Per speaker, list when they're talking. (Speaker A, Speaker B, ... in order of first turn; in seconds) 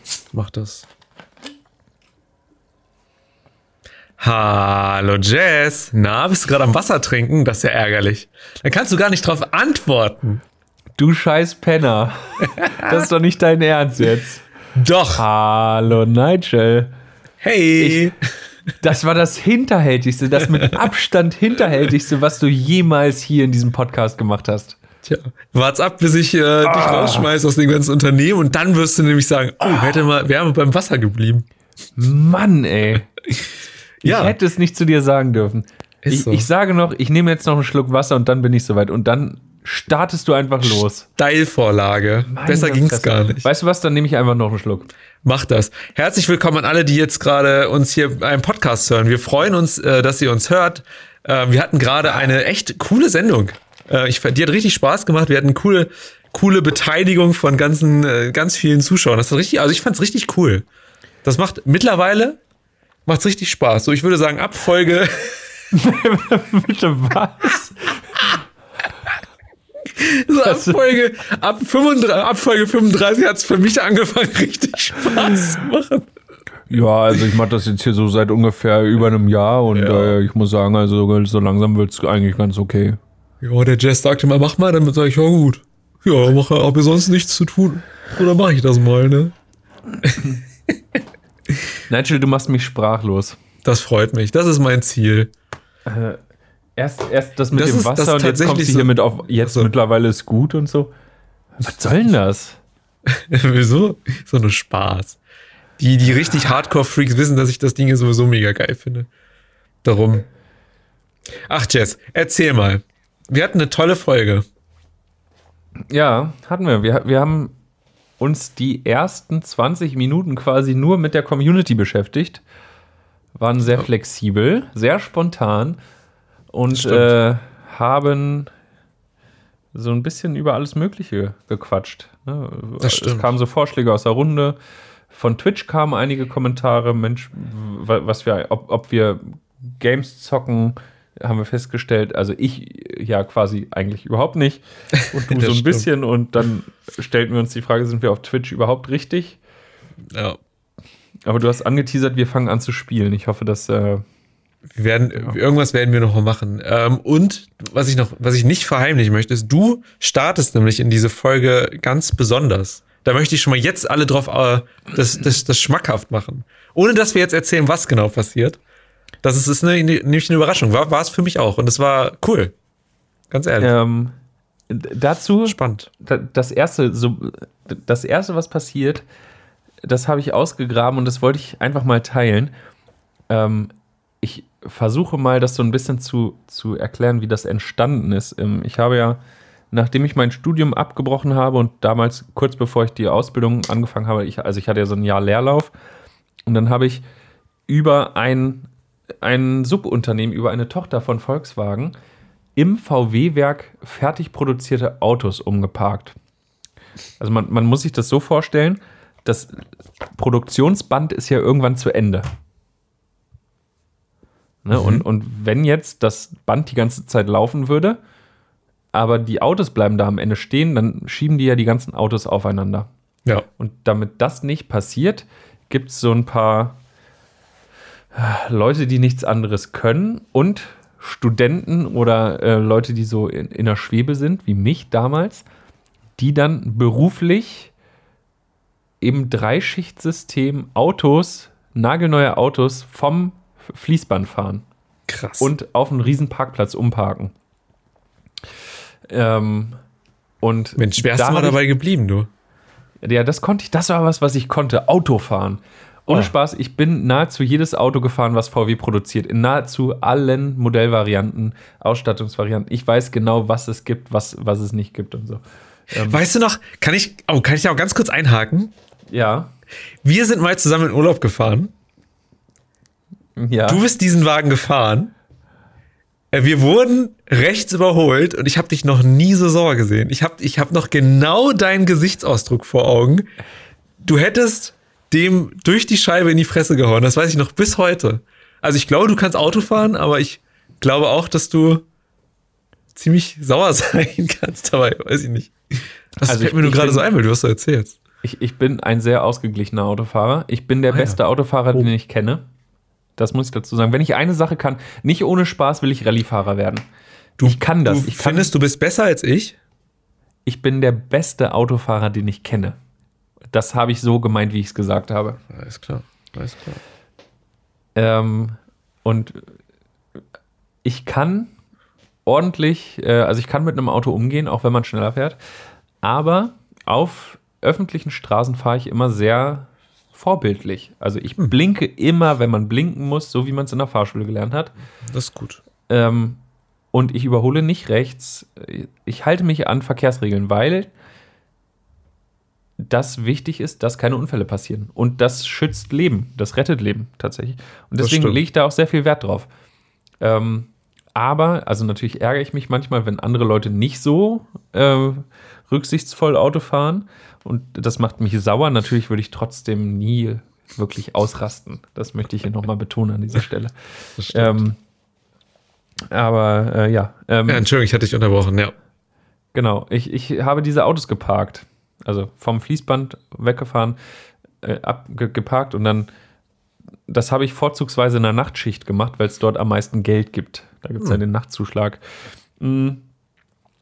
Speaker A: 0.3-0.9, 4.2-10.4, 12.5-13.1, 14.8-15.2, 17.4-18.2, 25.0-31.5, 34.0-34.4, 36.0-36.5, 41.2-43.5, 45.2-60.7, 61.2-62.4, 63.1-65.5, 69.8-76.1, 79.8-80.2, 83.4-89.3, 93.6-95.3, 97.5-98.9, 99.4-99.7, 103.1-105.2, 105.8-109.1, 109.8-110.3, 111.5-114.5, 126.7-127.2, 132.8-133.3, 145.3-145.9, 150.1-150.4, 154.8-168.6, 169.2-172.5, 173.3-173.7, 175.5-175.9, 214.7-215.0, 245.1-245.5, 250.8-252.3, 266.0-268.7, 270.0-271.7, 273.7-275.1, 276.3-283.3, 284.0-291.8, 292.9-298.0, 300.9-301.2, 307.4-309.6, 315.5-316.8, 335.1-335.6, 348.0-348.4, 364.2-364.6, 367.5-368.7
Speaker B: 11.0-14.4, 15.2-16.9, 17.8-18.1, 18.8-24.8, 26.6-27.3, 32.0-33.1, 34.0-41.1, 42.3-45.0, 65.7-68.0, 70.5-70.7, 76.7-83.0, 91.9-93.4, 95.9-96.2, 96.8-100.9, 101.6-102.6, 115.9-117.5, 118.2-122.4, 123.4-125.8, 126.5-128.5, 129.7-134.6, 135.1-149.4, 151.3-154.0, 173.6-174.2, 174.7-179.1, 179.8-182.5, 183.3-189.2, 189.7-195.7, 196.5-197.0, 197.7-198.7, 199.2-201.9, 202.6-206.2, 207.2-209.6, 210.1-212.3, 214.7-218.0, 218.9-222.9, 223.6-226.8, 228.2-235.4, 236.2-237.7, 239.0-244.7, 245.4-247.3, 249.1-249.8, 250.4-251.6, 253.0-266.2, 269.1-269.5, 273.4-273.8, 296.2-297.1, 298.2-302.4, 303.2-306.9, 307.4-308.5, 310.5-312.8, 313.5-315.4, 318.0-319.4, 320.8-321.5, 322.2-325.4, 326.0-334.7, 335.9-336.4, 336.9-340.9, 342.8-349.5, 350.2-364.8, 366.1-367.7, 369.6-374.0, 374.6-376.1, 377.1-382.0, 382.6-383.0